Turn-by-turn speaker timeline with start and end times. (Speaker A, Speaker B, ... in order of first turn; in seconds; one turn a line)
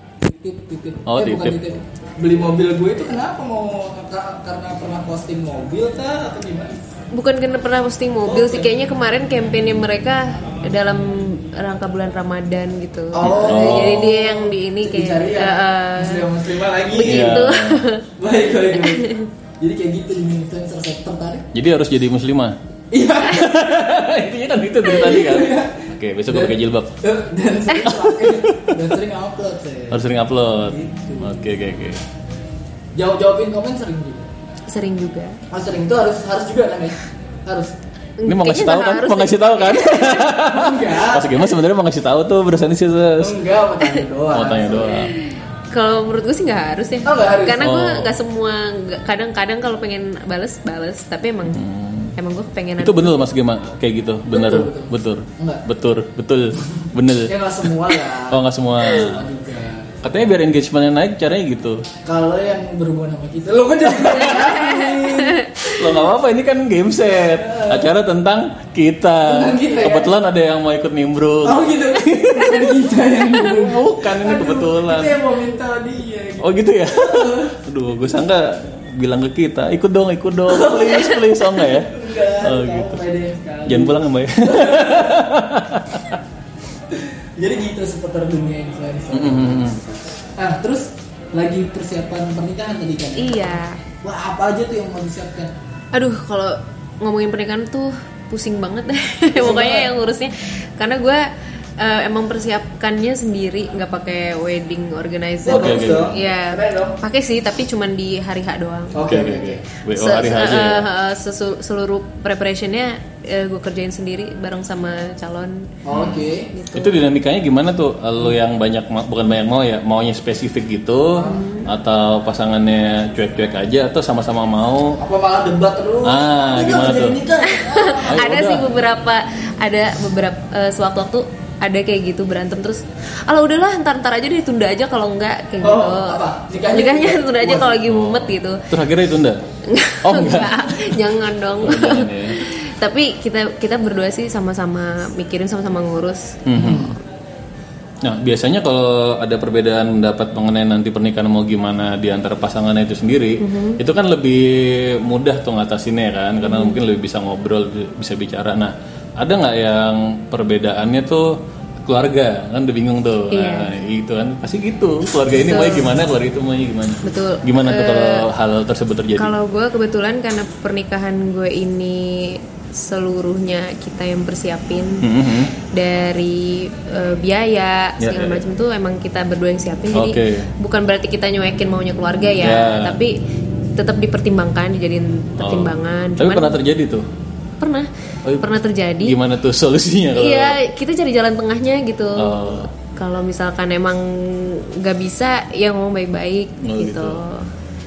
Speaker A: 0.2-6.8
Speaker B: 1.1-1.6
Speaker C: 7.1-18.1
Speaker A: 8.2-8.7
Speaker A: 13.1-14.1
Speaker B: 13.2-14.4
Speaker A: 14.8-17.5
Speaker B: 17.0-17.9
Speaker A: 18.2-21.5
Speaker C: 18.8-19.3
Speaker B: 21.5-22.6
Speaker A: 22.9-23.6
Speaker B: 23.2-26.9
Speaker A: 24.9-30.1
Speaker B: 27.9-28.7
Speaker B: 29.9-32.0
Speaker A: 30.7-31.4
Speaker A: 33.0-34.3
Speaker C: 34.7-35.4
Speaker A: 35.5-37.7
Speaker C: 38.2-40.4
Speaker B: 38.3-43.4
Speaker A: 40.4-41.4
Speaker A: 43.2-45.1
Speaker B: 44.3-45.1
Speaker C: 45.1-51.6
Speaker A: 47.0-47.7
Speaker B: 47.6-48.1
Speaker B: 51.5-52.1
Speaker C: 52.2-53.3
Speaker B: 52.8-57.7
Speaker A: 54.3-55.6
Speaker A: 57.3-60.2
Speaker B: 58.3-59.3
Speaker B: 60.0-61.9
Speaker A: 62.0-65.8
Speaker C: 64.5-65.5
Speaker B: 65.7-75.2
Speaker A: 67.4-67.9
Speaker A: 69.2-70.1
Speaker A: 71.4-77.5
Speaker B: 76.4-83.0
Speaker A: 80.5-81.0
Speaker A: 81.8-85.3
Speaker B: 83.7-86.2
Speaker A: 86.9-95.5
Speaker B: 89.1-89.8
Speaker C: 93.2-93.8
Speaker C: 95.9-101.3
Speaker A: 99.3-99.9
Speaker C: 101.8-109.0
Speaker A: 105.4-107.0
Speaker B: 105.5-106.1
Speaker A: 108.9-109.6
Speaker B: 109.1-110.9
Speaker C: 109.9-115.7
Speaker A: 115.8-116.5
Speaker B: 115.9-125.0
Speaker C: 116.5-117.0
Speaker A: 121.2-121.4
Speaker C: 121.2-121.7
Speaker A: 125.0-128.4
Speaker B: 126.0-127.2
Speaker C: 127.4-138.7
Speaker B: 128.1-128.8
Speaker A: 135.6-137.8
Speaker B: 137.8-139.4
Speaker C: 139.7-146.4
Speaker B: 140.0-141.0
Speaker B: 141.6-142.4
Speaker B: 146.5-146.9
Speaker A: 146.6-146.9
Speaker B: 148.0-169.3
Speaker C: 153.4-153.8
Speaker C: 156.4-156.8
Speaker C: 163.3-163.7
Speaker C: 165.4-165.9
Speaker C: 167.0-168.3
Speaker C: 169.2-175.1
Speaker B: 175.0-175.5
Speaker C: 175.6-183.2
Speaker B: 178.0-178.4
Speaker B: 179.9-180.5
Speaker B: 182.4-183.0
Speaker C: 183.8-186.6
Speaker B: 185.4-187.1
Speaker C: 187.6-187.9
Speaker C: 188.4-189.2
Speaker B: 189.0-190.6
Speaker C: 190.2-197.5
Speaker B: 192.2-192.7
Speaker B: 196.6-197.2